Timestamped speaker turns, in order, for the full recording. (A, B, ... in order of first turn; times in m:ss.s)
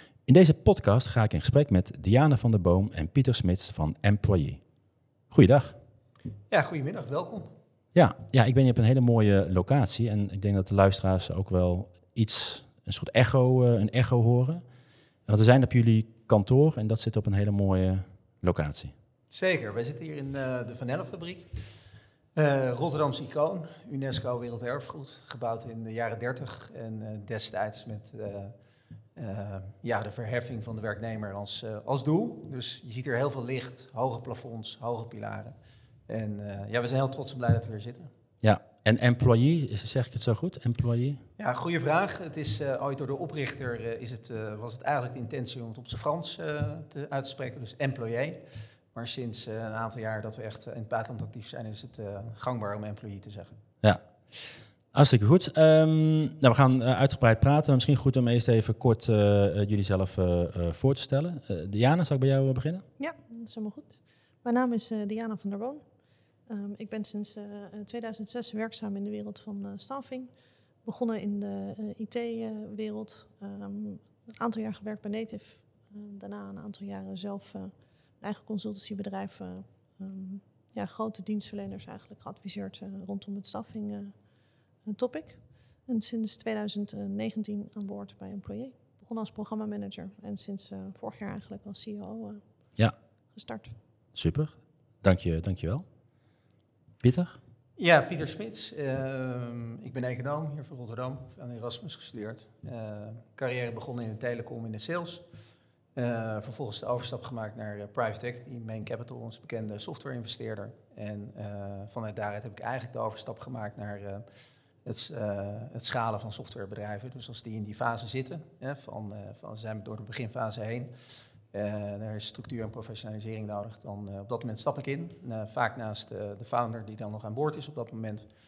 0:00.2-0:04.6 A
0:05.3-0:05.8 A
0:06.5-0:07.5 B
0:07.9-0:14.6 A
0:15.2-0:18.9 A
0:19.3-0:21.5 B
0:22.3-0:28.5 B
0:29.2-0:35.6 B
0:36.1-0:38.1 B
0:38.4-0:41.2 A
0:41.4-0:53.6 B
0:53.8-1:02.8 A
1:03.0-1:05.8 C
1:06.4-1:24.2 C
1:24.8-1:32.8 C
1:33.3-1:33.8 C
1:34.1-1:35.8 A
1:37.0-1:37.4 A
1:37.8-1:45.2 B
1:45.9-1:54.2 B
1:54.8-2:00.9 B
2:01.5-2:08.3 B